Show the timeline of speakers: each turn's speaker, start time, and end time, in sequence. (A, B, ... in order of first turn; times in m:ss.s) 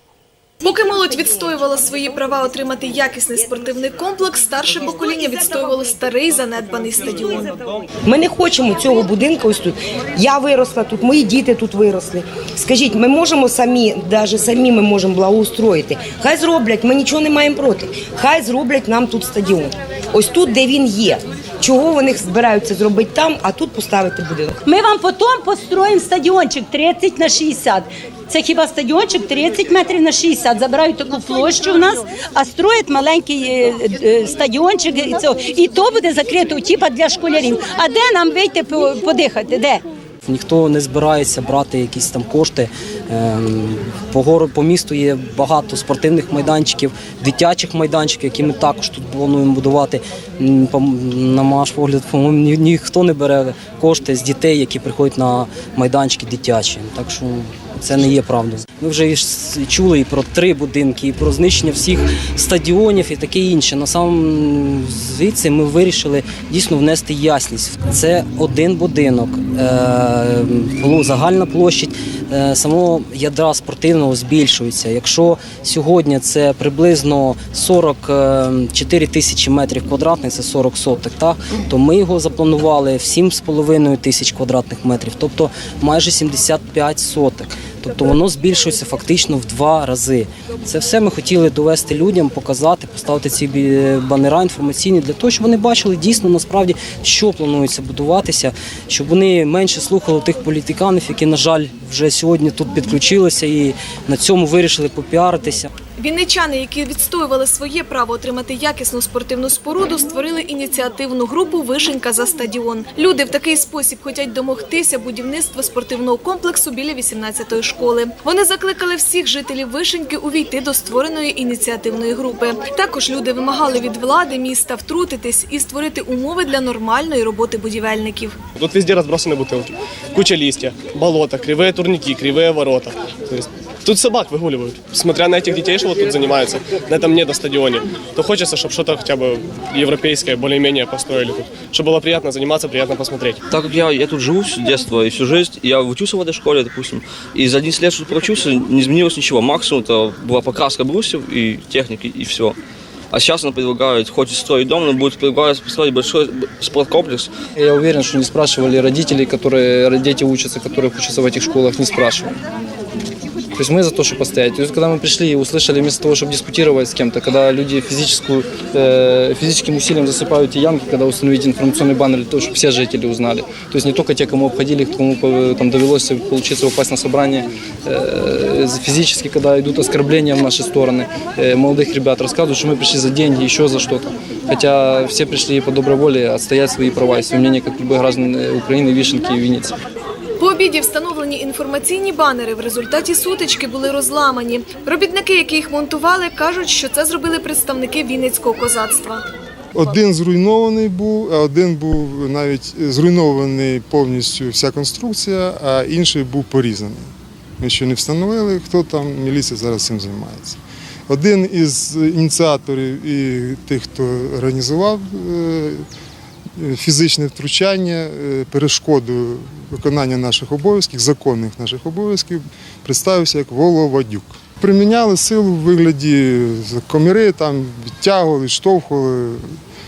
0:00.6-0:07.6 A
0:08.1-0:24.6 B
0:24.6-0:39.8 C
0:40.2-1:45.7 D
1:46.0-2:08.4 A
2:08.6-2:23.4 E
2:23.5-2:32.6 F
2:33.1-2:37.3 F
2:37.6-2:42.4 G
2:43.5-3:09.8 G
3:10.4-3:19.2 A
3:19.7-3:35.8 H
3:36.6-3:49.5 H